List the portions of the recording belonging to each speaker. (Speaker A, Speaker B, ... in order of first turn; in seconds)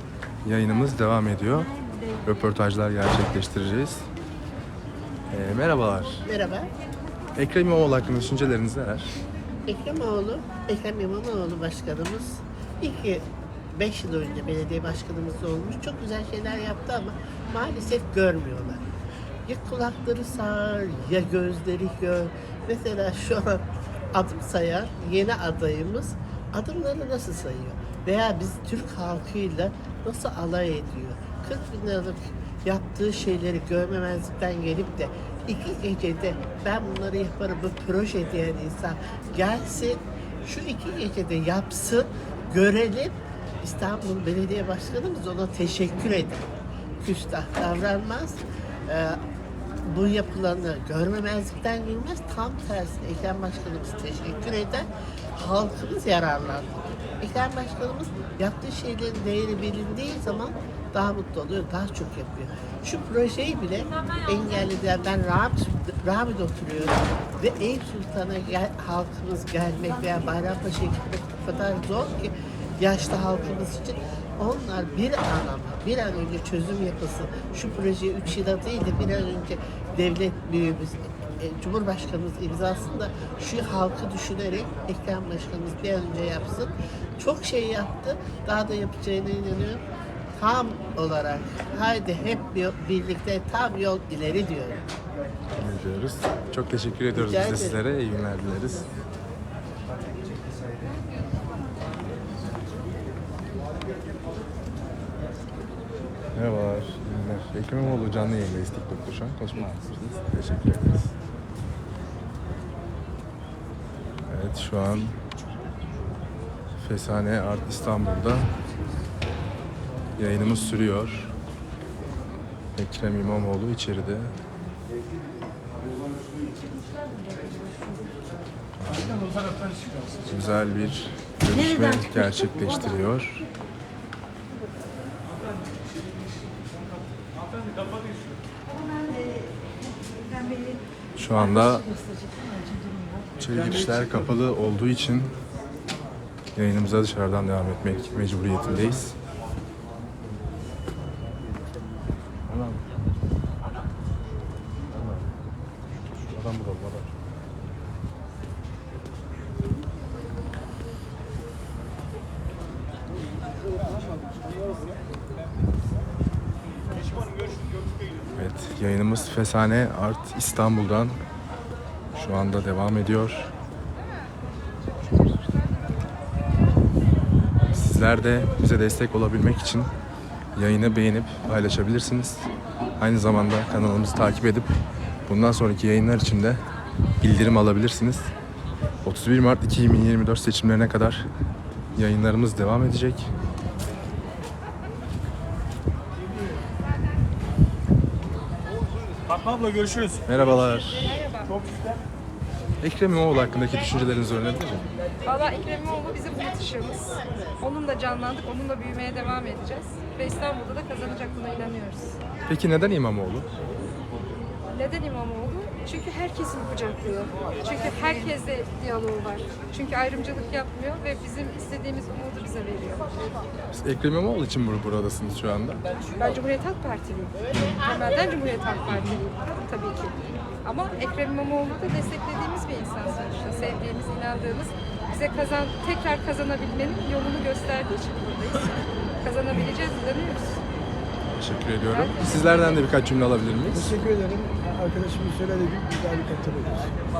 Speaker A: 0.4-1.7, 2.2-4.0, 5.3-6.2, 7.4-9.2, 95.6-98.9, 106.3-111.1, 114.3-115.2, 116.8-118.5, 120.2-121.3, 122.8-124.3, 128.8-129.3, 130.3-133.5, 141.2-141.9, 143.4-145.3, 146.6-149.2, 152.5-152.8, 154.9-155.3, 156.2-157.1, 168.4-171.2, 172.1-173.5, 177.7-179.9, 180.6-182.5, 183.0-184.7, 185.3-186.6, 187.2-188.3, 189.1-191.3, 191.9-193.3, 200.2-201.1, 202.8-204.9, 212.5-213.5, 223.7-225.8, 228.9-229.2, 241.4-244.0
Speaker B: 6.2-6.7, 9.7-18.9, 19.5-46.5, 47.0-49.2, 49.8-89.8, 90.4-94.8, 97.1-97.8
Speaker C: 201.0-201.6, 205.2-212.2, 214.7-223.1, 226.2-240.6, 241.9-242.4
Speaker D: 244.0-247.0